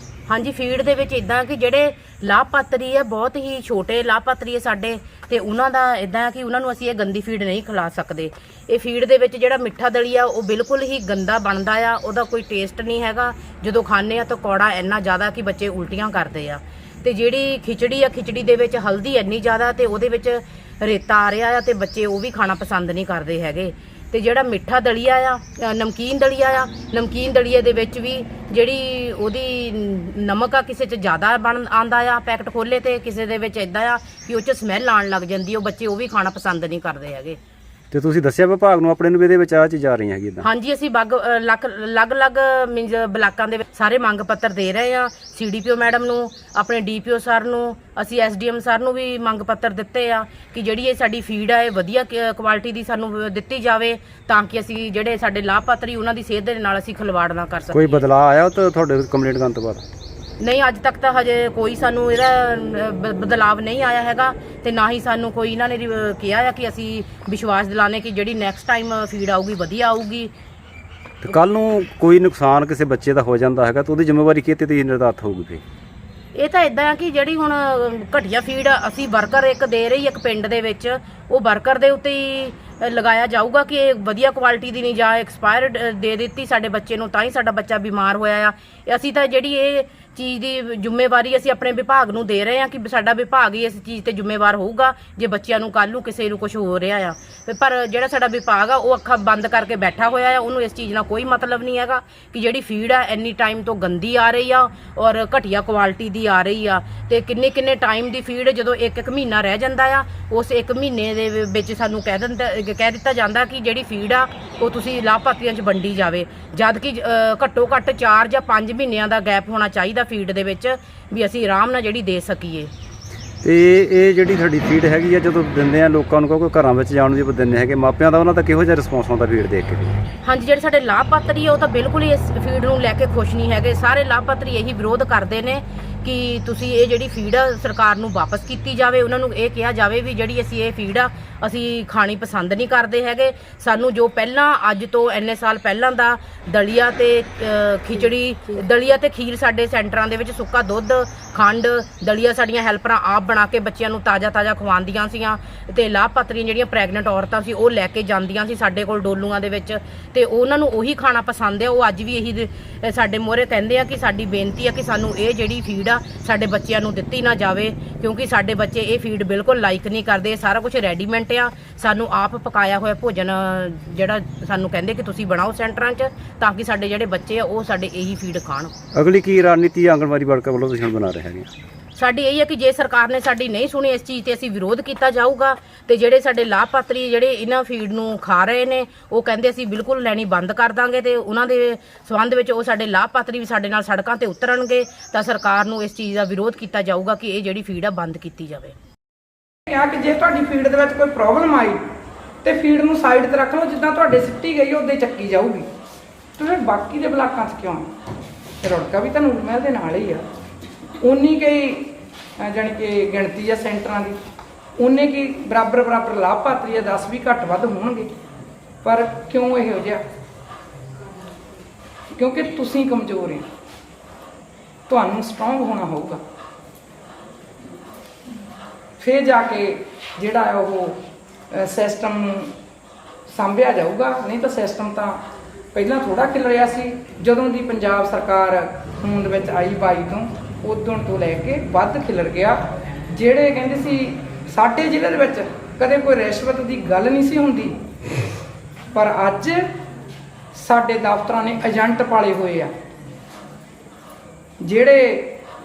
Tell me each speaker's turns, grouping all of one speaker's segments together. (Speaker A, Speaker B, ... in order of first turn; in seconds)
Speaker A: 0.3-37.4, 40.4-58.0, 60.4-70.3, 76.3-122.7, 130.2-178.7, 181.9-198.7
Speaker B: 37.9-40.5, 57.7-59.8, 71.2-75.6, 123.4-130.0, 178.9-181.5
Speaker C: 199.7-201.8, 202.4-205.7, 206.4-207.9, 208.6-210.2, 211.0-214.2, 214.8-218.1, 218.8-220.0, 222.2-223.4, 224.9-226.2, 229.0-231.0, 231.5-232.5, 233.3-235.2, 235.7-247.8, 248.9-249.6, 250.5-252.7, 254.6-255.4